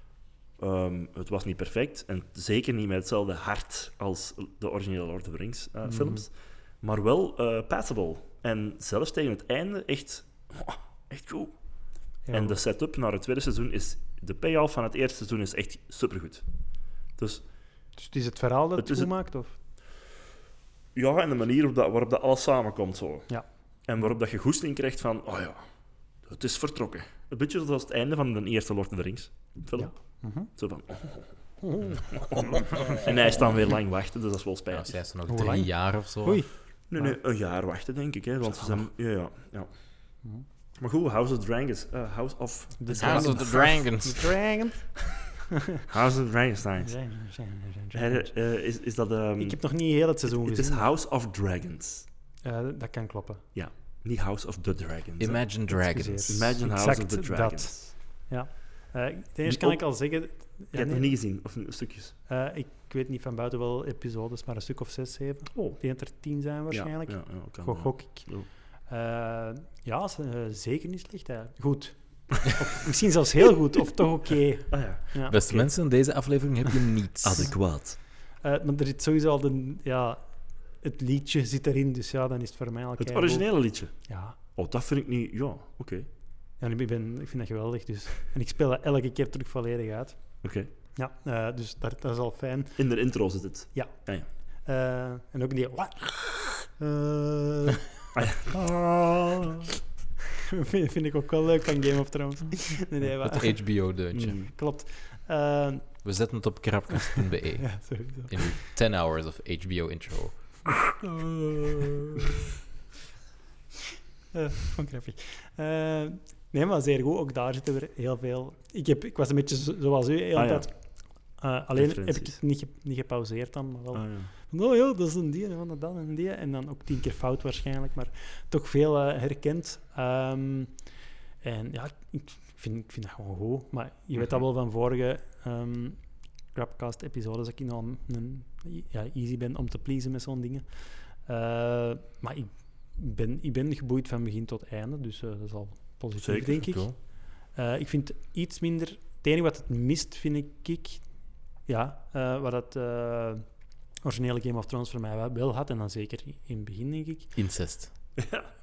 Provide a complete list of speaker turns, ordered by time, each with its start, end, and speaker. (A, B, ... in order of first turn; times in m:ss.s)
0:00.6-0:11.5 A
0:05.8-0:06.2 B
0:12.2-0:12.6 B
0:12.3-0:16.5 A
0:17.1-0:17.4 A
0:18.0-0:19.5 B
0:18.8-0:19.1 A
0:20.9-0:25.6 A
0:26.2-0:35.0 A
0:29.8-0:30.5 B
0:31.6-0:33.0 B
0:34.7-0:36.5 C
0:35.3-0:37.2 B
0:36.9-0:40.1 A
0:40.8-0:43.6 A
0:42.8-0:45.6 B
0:43.0-0:44.4 C
0:45.9-0:46.9 A
0:46.8-0:48.3 B
0:47.9-0:52.0 A
0:49.4-0:50.9 B
0:52.4-0:53.4 B
0:53.5-0:55.6 A
0:55.2-0:56.5 C
0:55.7-1:01.2 B
0:56.3-0:57.9 A
0:59.4-1:02.1 A
1:02.3-1:15.4 B
1:05.5-1:06.0 A
1:06.7-1:08.5 A
1:14.7-1:15.7 A
1:15.3-1:17.6 C
1:17.2-1:18.0 A
1:18.4-1:24.4 B
1:23.0-1:26.1 A
1:26.6-1:33.1 B
1:30.4-1:30.7 A
1:32.8-1:34.3 A
1:33.7-1:37.9 B
1:38.1-1:39.7 A
1:40.5-1:43.7 B
1:43.2-1:44.4 C
1:44.1-1:44.5 A
1:44.5-1:46.0 B
1:46.0-1:50.7 C
1:47.6-1:48.6 B
1:51.1-1:51.8 B
1:54.3-2:37.3 B
2:00.3-2:00.7 A
2:01.8-2:02.4 A
2:03.9-2:04.3 A
2:26.2-2:26.6 A
2:26.5-2:27.0 C
2:37.4-2:37.9 C
2:38.2-2:38.5 A